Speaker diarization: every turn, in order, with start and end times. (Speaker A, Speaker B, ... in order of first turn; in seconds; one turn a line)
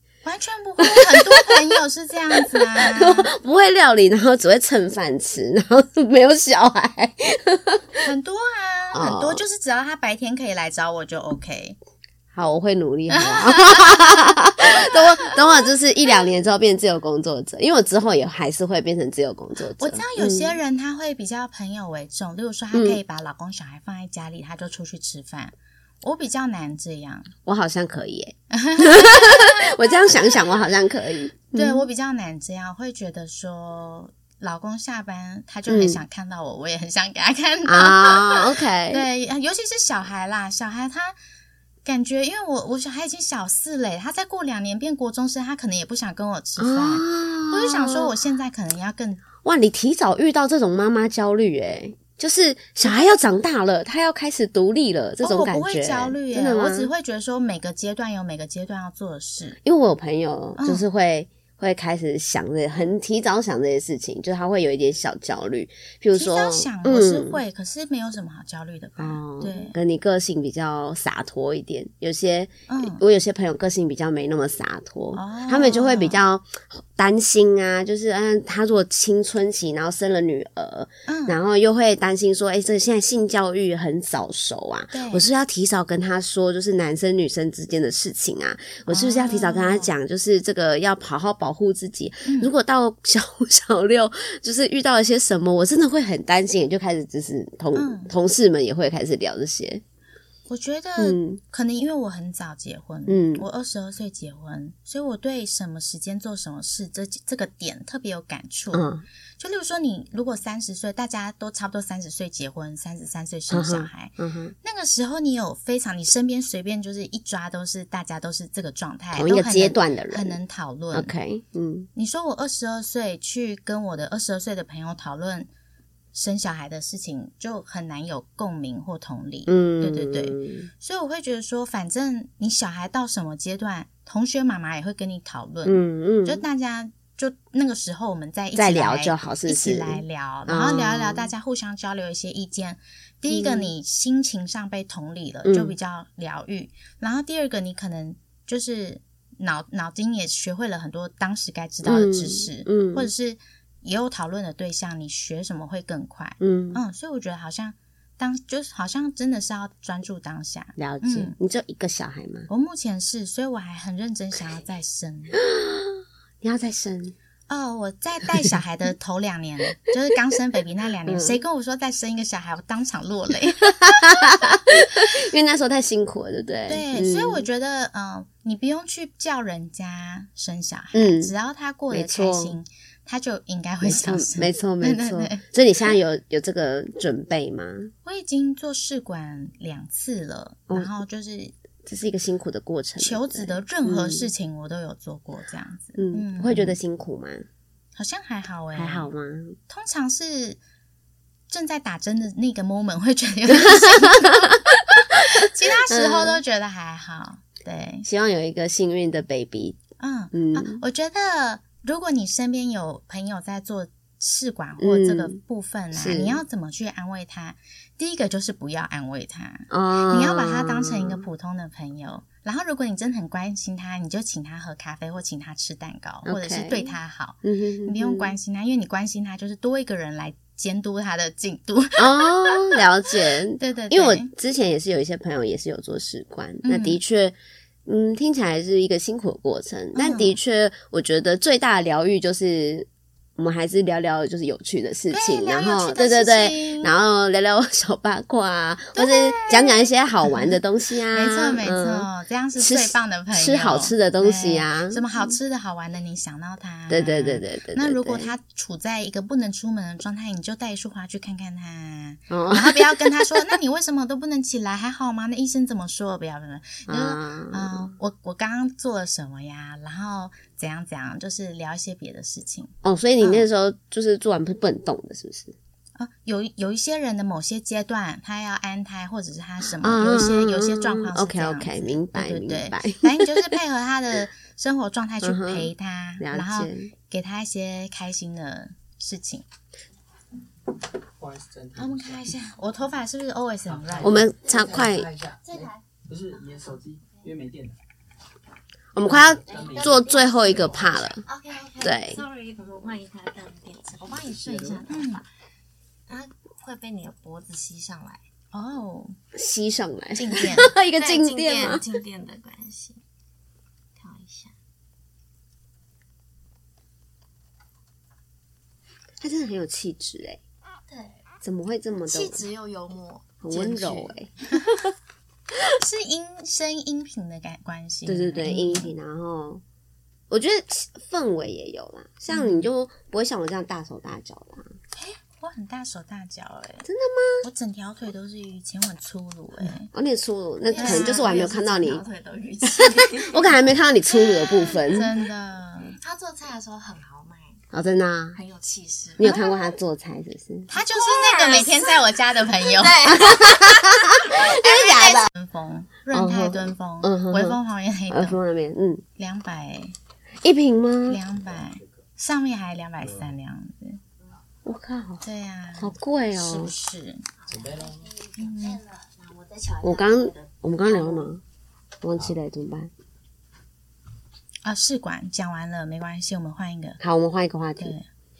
Speaker A: 0.2-3.3
Speaker B: 0.8-1.2
Speaker B: 2.6-8.0
Speaker A: 8.0-11.8
Speaker B: 8.9-9.4
Speaker B: 12.3-20.6
Speaker A: 13.1-15.4
Speaker A: 19.8-27.3
Speaker B: 22.7-23.0
Speaker B: 27.4-31.9
Speaker A: 28.5-30.2
Speaker A: 31.5-41.1
Speaker B: 35.7-36.0
Speaker B: 37.7-39.0
Speaker A: 41.9-49.2
Speaker B: 46.6-48.1
Speaker B: 49.4-56.9
Speaker A: 52.8-53.2
Speaker A: 55.2-59.6
Speaker B: 59.6-67.4
Speaker A: 60.6-60.9
Speaker A: 66.2-69.8
Speaker B: 69.0-99.8
Speaker A: 72.7-73.0
Speaker A: 75.1-76.2
Speaker A: 81.1-81.4
Speaker A: 84.9-85.3
Speaker A: 88.9-89.9
Speaker A: 92.2-92.5
Speaker A: 97.7-98.1
Speaker A: 100.5-121.1
Speaker B: 101.0-101.4
Speaker B: 103.1-103.4
Speaker B: 108.7-109.0
Speaker B: 113.5-114.5
Speaker B: 119.2-120.4
Speaker B: 120.9-121.9
Speaker A: 122.0-125.5
Speaker A: 126.1-161.3
Speaker B: 129.5-130.7
Speaker B: 135.7-136.4
Speaker B: 138.6-141.3
Speaker B: 143.3-143.7
Speaker B: 145.4-145.8
Speaker B: 151.8-153.1
Speaker B: 156.4-156.8
Speaker B: 160.8-162.5
Speaker A: 162.5-165.4
Speaker B: 165.3-167.1
Speaker A: 167.5-174.3
Speaker B: 171.1-171.4
Speaker B: 173.7-177.4
Speaker A: 176.7-185.4
Speaker B: 180.9-181.3
Speaker B: 181.9-182.6
Speaker B: 183.8-187.9
Speaker A: 188.1-191.5
Speaker B: 191.8-194.3
Speaker A: 193.0-196.8
Speaker B: 196.0-197.5
Speaker A: 198.0-199.1
Speaker B: 198.8-199.6
Speaker A: 199.7-200.6
Speaker A: 201.5-208.1
Speaker B: 203.5-204.6
Speaker B: 205.9-206.4
Speaker B: 208.0-209.8
Speaker A: 210.0-232.8
Speaker B: 210.3-210.8
Speaker B: 214.8-215.4
Speaker B: 215.9-216.4
Speaker B: 219.7-221.3
Speaker B: 226.2-228.3
Speaker B: 232.0-255.3
Speaker A: 233.6-234.3
Speaker A: 236.6-237.0
Speaker A: 239.9-240.4
Speaker A: 245.1-246.9
Speaker A: 248.9-250.6
Speaker A: 251.1-273.5
Speaker B: 256.9-258.3
Speaker B: 262.3-263.6
Speaker B: 266.9-267.9
Speaker B: 272.8-275.6
Speaker A: 276.0-289.4
Speaker B: 279.8-283.5
Speaker B: 285.2-286.9
Speaker C: 291.2-292.3
Speaker A: 291.8-294.3
Speaker C: 293.7-297.8
Speaker B: 294.0-295.1
Speaker D: 295.4-297.3
Speaker B: 298.9-301.2
Speaker C: 299.0-300.9
Speaker D: 299.5-305.2
Speaker B: 301.8-302.2
Speaker C: 304.3-304.9
Speaker A: 304.9-305.2
Speaker D: 306.1-308.2
Speaker A: 308.5-309.2
Speaker B: 309.3-311.8
Speaker A: 310.1-310.7
Speaker D: 310.9-313.0
Speaker D: 314.0-314.6
Speaker B: 319.2-320.4
Speaker D: 320.9-321.2
Speaker B: 321.4-322.4
Speaker D: 322.0-324.1
Speaker B: 323.4-324.9
Speaker A: 325.8-328.9
Speaker B: 328.1-329.6
Speaker B: 330.3-334.7
Speaker A: 332.3-332.7
Speaker A: 334.9-336.9
Speaker B: 336.9-337.5
Speaker A: 337.4-339.9
Speaker B: 339.9-342.1
Speaker D: 340.7-343.6
Speaker A: 340.8-341.3
Speaker B: 342.7-345.1
Speaker D: 344.2-344.8
Speaker A: 344.9-346.0
Speaker D: 346.0-347.7
Speaker B: 347.7-348.4
Speaker D: 348.3-349.5
Speaker B: 349.2-350.7
Speaker A: 349.2-349.7
Speaker A: 350.7-353.2
Speaker D: 350.9-352.0
Speaker D: 352.6-354.1
Speaker B: 353.1-355.3
Speaker A: 354.3-358.4
Speaker B: 356.1-357.6
Speaker B: 358.1-359.0
Speaker A: 359.2-359.9
Speaker B: 360.4-361.2
Speaker A: 361.1-364.0
Speaker C: 361.3-362.1
Speaker C: 363.0-363.3
Speaker B: 364.6-365.2
Speaker A: 365.2-367.2
Speaker B: 365.8-366.7
Speaker D: 367.4-371.3
Speaker C: 367.5-368.1
Speaker A: 368.4-368.8
Speaker B: 369.8-371.4
Speaker B: 372.0-372.9
Speaker A: 374.6-377.0
Speaker B: 377.0-377.9
Speaker A: 377.8-378.1